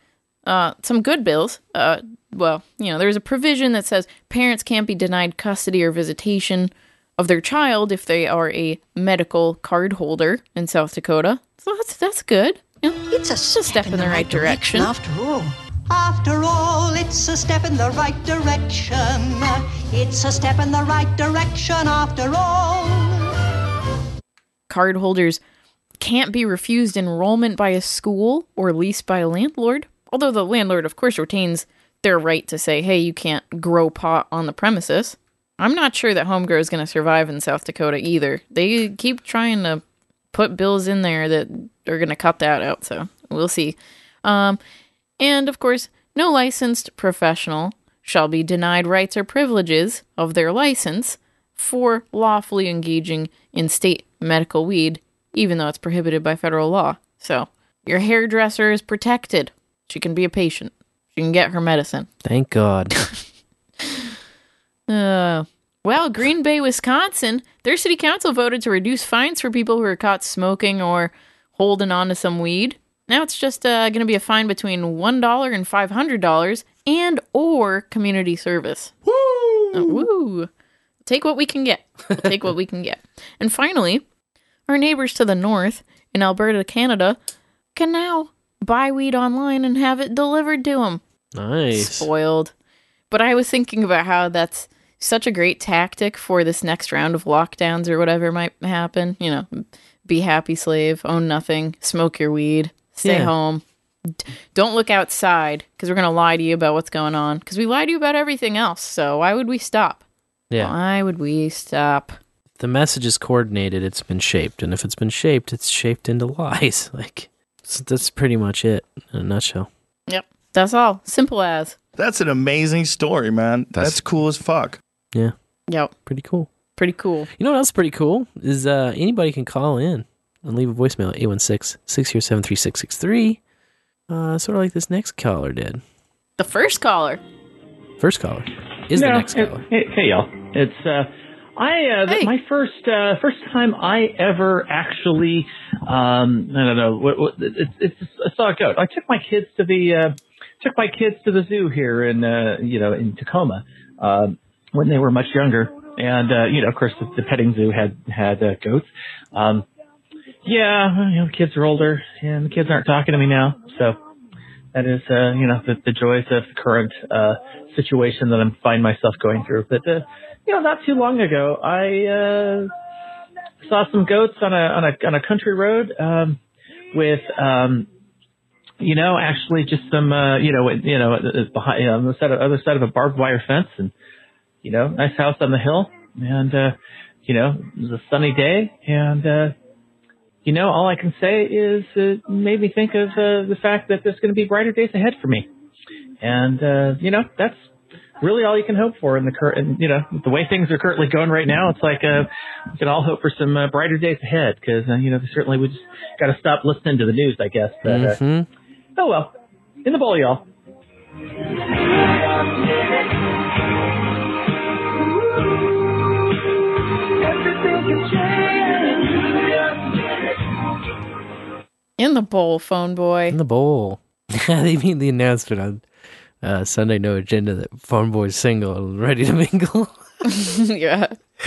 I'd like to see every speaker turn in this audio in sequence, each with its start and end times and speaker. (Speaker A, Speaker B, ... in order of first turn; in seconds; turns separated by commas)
Speaker A: 0.4-14.9, Speaker B: 13.0-23.3, Speaker A: 24.7-25.4, Speaker A: 26.0-39.8, Speaker A: 40.3-44.6, Speaker A: 45.2-62.1, Speaker C: 62.2-63.0, Speaker A: 64.9-79.0, Speaker C: 79.1-80.0, Speaker A: 79.7-80.5, Speaker A: 81.1-84.0, Speaker A: 84.7-87.2, Speaker A: 87.8-91.0, Speaker C: 91.3-92.1, Speaker A: 91.7-92.5, Speaker A: 93.1-110.0, Speaker C: 103.0-103.3, Speaker A: 110.6-112.2, Speaker C: 112.6-119.7, Speaker A: 120.1-121.8, Speaker D: 122.0-124.8, Speaker C: 126.1-126.5, Speaker A: 126.8-127.3, Speaker C: 127.4-133.4, Speaker C: 134.1-135.8, Speaker A: 136.4-137.2, Speaker C: 138.0-139.6, Speaker E: 138.9-159.6, Speaker E: 160.4-164.0, Speaker E: 164.7-172.7, Speaker E: 173.6-176.4, Speaker E: 176.9-177.9, Speaker E: 178.8-183.9, Speaker E: 184.6-189.6, Speaker E: 190.4-195.5, Speaker E: 196.2-197.6, Speaker E: 198.2-208.2, Speaker C: 207.8-208.5, Speaker E: 208.9-209.3, Speaker E: 209.8-210.4, Speaker E: 212.3-212.6, Speaker A: 222.0-223.3, Speaker C: 223.3-225.8, Speaker C: 226.4-230.0, Speaker A: 230.3-231.1